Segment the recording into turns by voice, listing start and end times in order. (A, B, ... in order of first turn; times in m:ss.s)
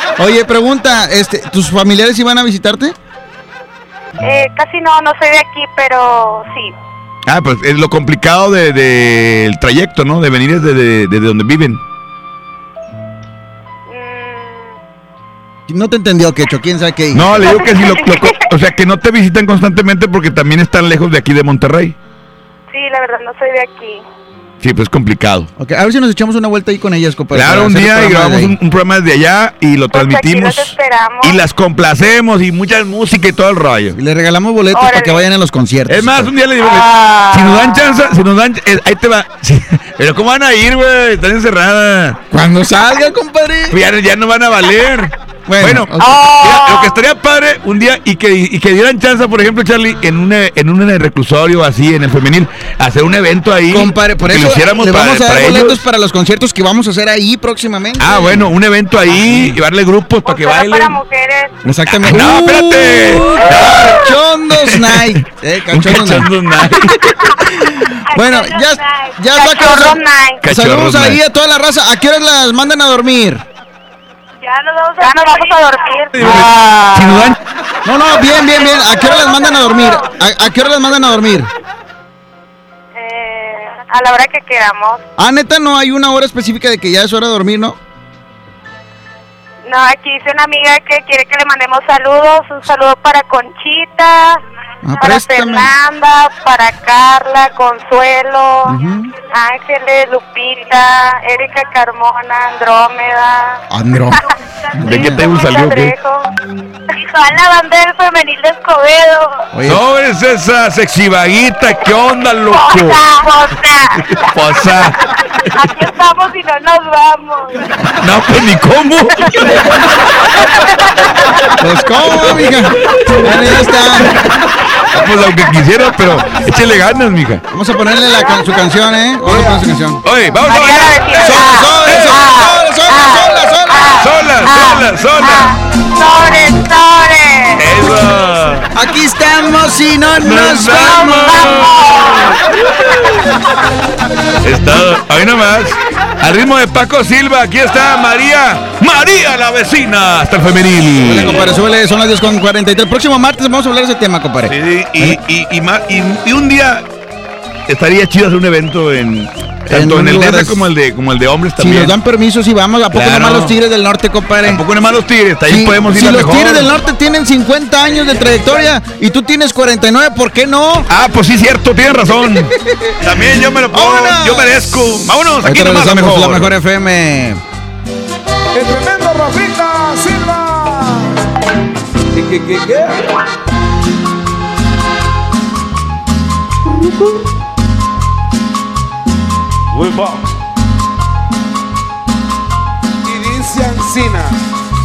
0:00.2-0:03.0 A
0:04.2-0:06.7 B
0:07.3-0:11.8 C
0:13.9-0:14.7 B
0:15.7-0:17.7 A
0:17.1-0:22.0 C
0:17.8-0:18.3 B
0:22.7-0:24.0 B
0:24.6-0:25.5 C
0:25.6-0:28.6 A
0:27.3-0:34.0 C
0:29.9-0:31.4 B
0:34.0-0:36.3 A
0:34.7-0:35.2 B
0:35.9-0:42.2 C
0:42.3-0:43.8 A
0:43.7-0:55.8 C
0:45.5-0:46.2 A
0:53.7-0:58.5 A
0:58.0-1:01.0 C
0:59.1-0:59.6 A
1:00.2-1:01.5 B
1:01.6-1:06.9 A
1:01.9-1:04.0 C
1:04.7-1:05.0 C
1:05.7-1:07.1 C
1:07.5-1:13.4 A
1:08.2-1:10.4 B
1:10.4-1:11.2 C
1:14.4-1:16.4 B
1:16.2-1:17.4 C
1:16.2-1:17.3 A
1:17.8-1:21.5 A
1:18.5-1:20.1 B
1:23.0-1:25.0 B
1:25.2-1:27.8 A
1:29.7-1:34.4 B
1:34.8-1:35.7 A
1:35.0-1:43.6 B
1:38.7-1:39.1 A
1:43.7-1:44.2 A
1:44.8-1:45.2 A
1:44.8-1:46.0 C
1:44.9-1:46.3 B
1:46.9-1:49.5 B
1:49.5-1:49.8 A
1:49.7-1:53.0 C
1:52.5-1:54.0 B
1:54.3-1:55.0 C
1:55.5-1:57.7 B
1:58.0-1:59.6 C
2:01.6-2:04.1 A
2:04.9-2:07.4 C
2:07.5-2:10.0 A
2:09.3-2:12.3 C
2:10.4-2:17.7 B
2:11.2-2:14.0 A
2:14.0-2:15.5 C
2:17.6-2:18.7 C
2:18.8-2:21.5 A
2:20.2-2:22.4 C
2:24.4-2:31.6 C
2:31.0-2:35.2 A
2:34.5-2:36.8 C
2:37.7-2:41.9 C
2:39.7-2:40.6 A
2:41.6-2:44.6 A
2:42.9-2:43.5 C
2:44.5-2:46.7 C
2:45.5-2:50.9 A
2:50.9-2:52.5 C
2:53.0-2:56.5 C
2:53.7-2:54.6 A
2:55.4-2:57.4 A
2:58.5-3:01.2 D
3:02.1-3:03.1 D
3:09.7-3:10.3 D
3:13.0-3:14.4 D